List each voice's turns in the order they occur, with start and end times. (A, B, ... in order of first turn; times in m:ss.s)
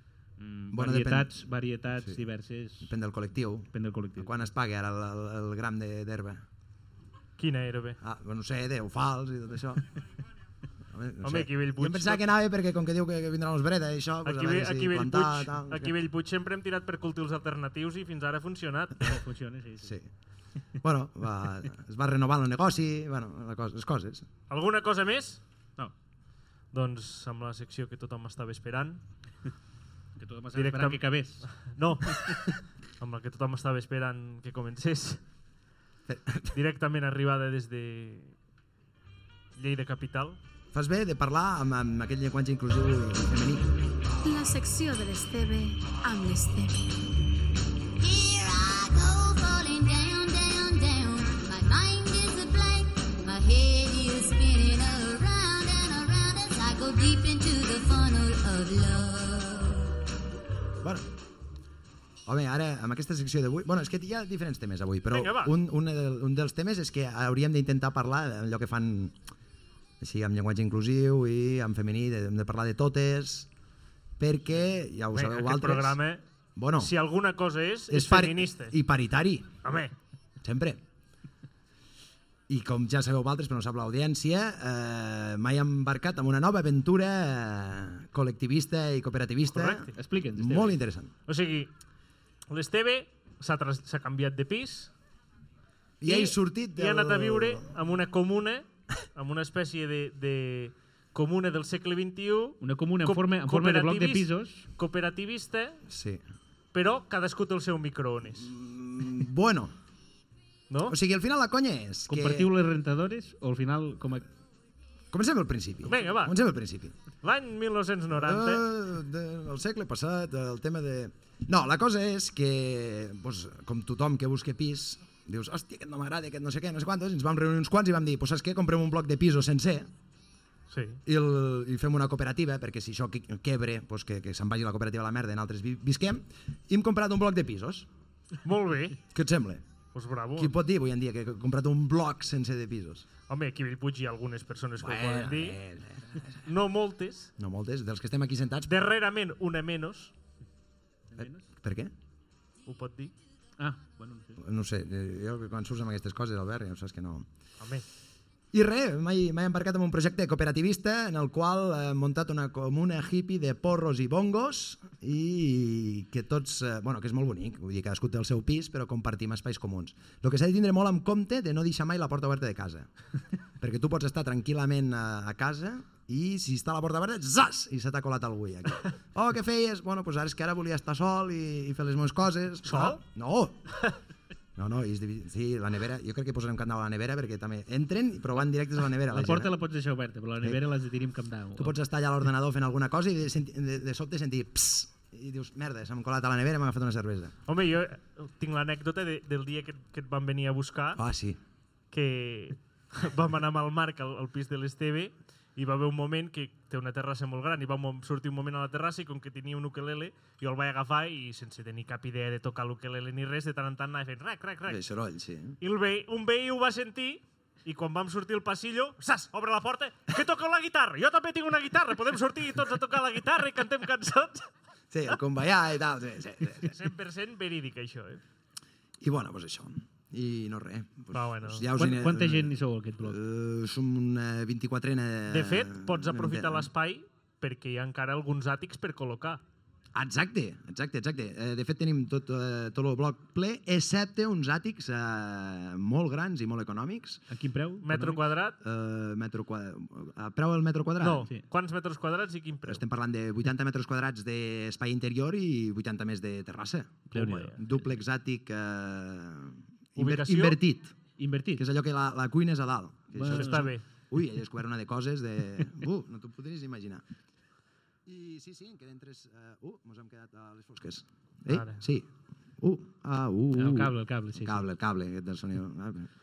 0:00.4-0:02.9 A
0:00.7-0:01.4 B
0:02.8-0:06.4 B
0:03.7-0:04.5 A
0:07.4-0:08.0 C
0:08.0-0:09.8 B
0:10.9-0:15.9 B
0:11.2-0:12.2 C
0:14.2-0:19.1 C
0:19.0-0:20.0 A
0:19.8-0:20.1 B
0:20.8-0:24.3 B
0:24.5-0:25.4 C
0:26.7-0:29.0 C
0:30.2-0:31.6 A
0:30.5-0:35.2 C
0:36.1-0:36.6 B
0:36.5-0:38.4 C
0:39.6-0:40.4 C
0:40.7-0:43.8 B
0:44.2-0:46.9 D
0:48.0-0:59.8 E
1:00.8-1:01.1 B
1:02.2-1:09.2 B
1:05.1-1:05.5 C
1:10.0-1:13.5 B
1:14.2-1:16.0 B
1:15.1-1:16.2 C
1:16.6-1:16.9 B
1:16.8-1:18.7 C
1:17.9-1:19.8 B
1:19.6-1:19.9 C
1:20.4-1:20.8 B
1:22.5-1:31.1 B
1:29.5-1:29.9 C
1:29.9-1:30.8 A
1:31.3-1:31.7 C
1:32.5-1:34.9 C
1:36.0-1:37.7 B
1:36.0-1:45.8 C
1:42.6-1:44.7 A
1:45.9-1:46.2 B
1:46.7-1:48.5 C
1:48.3-1:49.7 B
1:50.7-1:51.0 C
1:50.8-1:52.5 B
1:52.1-1:54.3 A
1:55.1-1:56.9 B
1:55.8-1:56.3 C
1:57.2-1:58.6 C
1:58.1-2:09.9 B
2:10.7-2:11.0 C
2:11.0-2:17.9 B
2:18.4-2:19.0 C
2:19.1-2:19.6 B
2:19.9-2:20.5 C
2:20.4-2:23.0 B
2:23.3-2:25.6 C
2:24.8-2:26.3 B
2:26.4-2:27.3 C
2:27.4-2:28.8 B
2:28.7-2:30.1 C
2:31.1-2:31.5 A
2:31.2-2:31.9 B
2:32.6-2:33.1 C
2:33.6-2:34.4 A
2:34.4-2:37.3 B
2:38.5-2:52.9 B
2:53.6-3:03.7 B
3:02.6-3:03.0 C
3:04.6-3:09.5 B
3:09.1-3:11.8 A
3:11.6-3:17.3 B
3:17.5-3:21.0 C
3:20.9-3:21.4 B
3:21.9-3:34.8 C
3:34.6-3:35.6 B
3:35.6-3:44.4 C
3:44.9-3:46.8 B
3:46.6-3:48.2 C
3:49.0-3:56.7 B
3:51.1-3:51.7 C
3:51.8-3:53.2 A
3:55.3-3:59.4 C
3:59.9-4:07.2 B
4:07.3-4:08.2 A
4:07.8-4:08.6 C
4:08.6-4:11.3 B
4:11.0-4:12.8 C
4:12.6-4:20.9 B
4:17.1-4:17.8 A
4:17.2-4:17.5 C
4:20.0-4:20.6 C
4:21.2-4:21.6 A
4:21.6-4:27.0 B
4:23.1-4:23.7 A
4:23.3-4:23.8 C
4:28.0-4:36.1 B
4:31.5-4:31.8 C
4:33.5-4:34.6 A